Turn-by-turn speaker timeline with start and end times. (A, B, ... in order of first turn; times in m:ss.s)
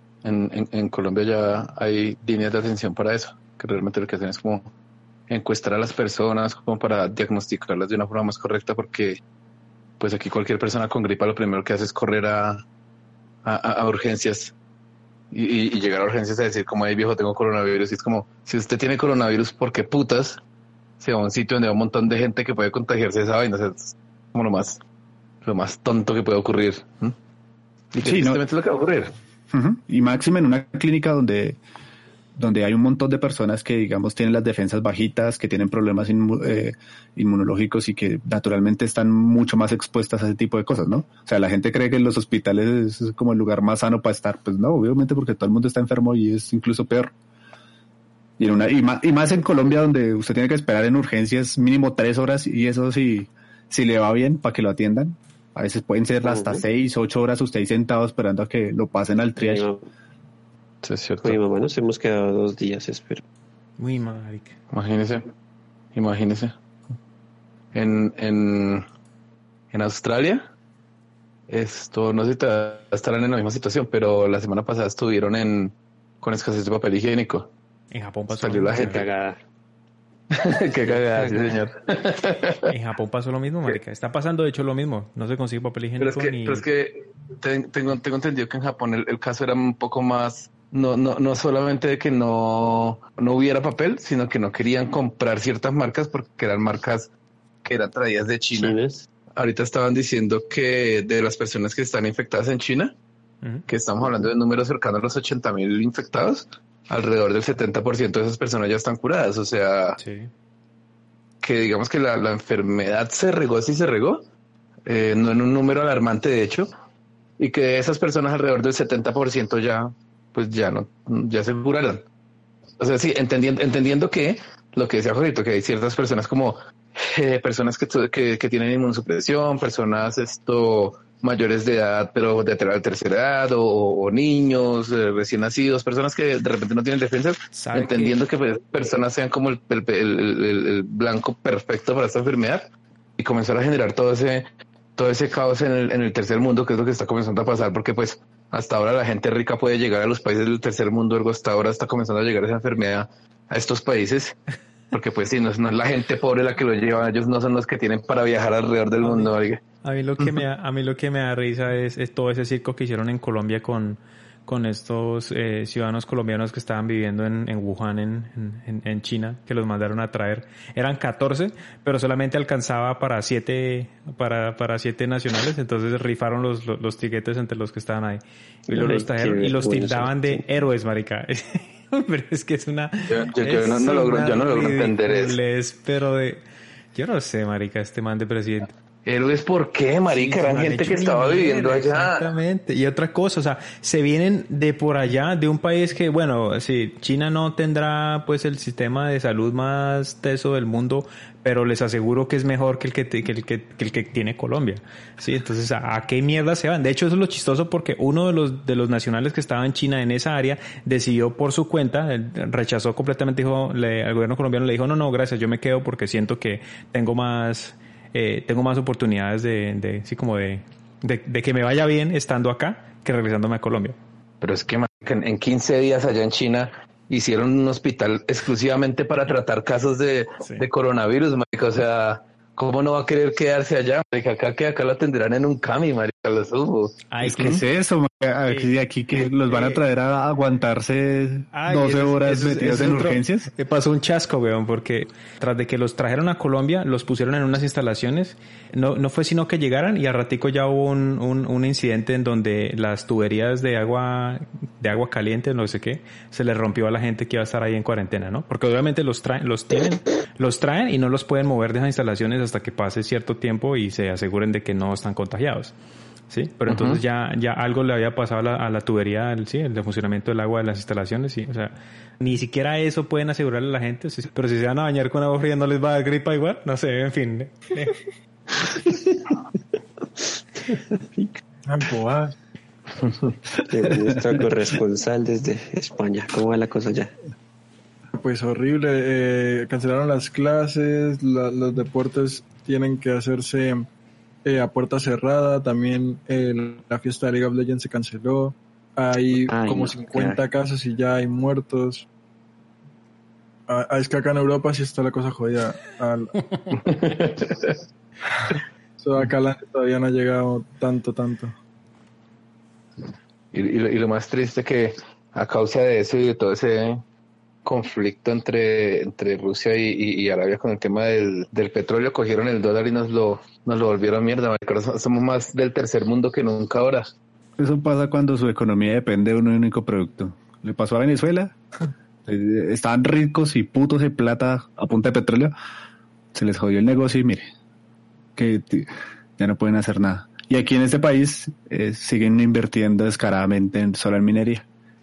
0:00.2-0:04.7 A
0:05.3-0:09.2 A
0:10.0-0:12.6 A
0:13.4-0:14.5 A
0:15.3-0:20.4 A
0:21.0-0:24.8 A
0:25.4-0:27.2 A
0:27.9-0:29.1 A
0:28.0-0:28.4 B
0:29.5-0:31.6 B
0:32.3-0:47.1 B
0:48.4-0:59.7 B
0:56.2-0:56.6 C
0:59.4-0:59.8 C
1:00.8-1:01.4 A
1:01.2-1:03.2 C
1:03.8-1:04.5 D
1:04.7-1:05.3 A
1:05.9-1:06.5 A
1:07.7-1:08.8 A
1:09.7-1:10.5 A
1:11.5-1:17.5 A
1:17.9-1:19.0 D
1:18.3-1:19.2 A
1:18.8-1:19.4 C
1:20.3-1:22.7 A
1:22.7-1:26.6 D
1:26.0-1:37.1 A
1:37.6-1:38.8 A
1:38.5-1:39.0 C
1:39.3-1:42.9 A
1:43.7-1:50.0 A
1:50.0-1:50.3 D
1:51.4-1:54.2 A
1:54.8-1:56.7 A
1:57.4-2:02.0 A
2:02.8-2:34.4 A
2:17.5-2:18.2 D
2:34.9-2:39.6 A
2:39.0-2:39.3 D
2:39.8-3:06.4 D
2:58.7-3:00.4 C
3:03.1-3:05.4 A
3:06.9-3:08.7 D
3:09.0-3:12.3 A
3:10.1-3:44.0 D
3:44.4-3:57.6 A
3:57.1-3:57.6 D
3:57.2-4:03.5 B
3:59.5-3:59.8 D
4:01.5-4:25.7 D
4:26.3-4:38.0 D
4:26.7-4:27.0 A
4:38.7-4:39.3 C
4:40.7-4:41.3 C
4:41.6-4:42.3 E
4:43.6-4:47.1 C
4:48.2-4:53.9 E
4:54.4-5:02.1 E
4:59.5-5:00.4 C
5:03.7-5:06.3 E
5:06.8-5:07.8 A
5:09.0-5:11.5 E
5:13.5-5:17.0 A
5:17.6-5:27.1 A
5:27.6-5:31.5 B
5:32.2-5:35.5 B
5:36.3-5:37.5 B
5:38.4-5:44.6 B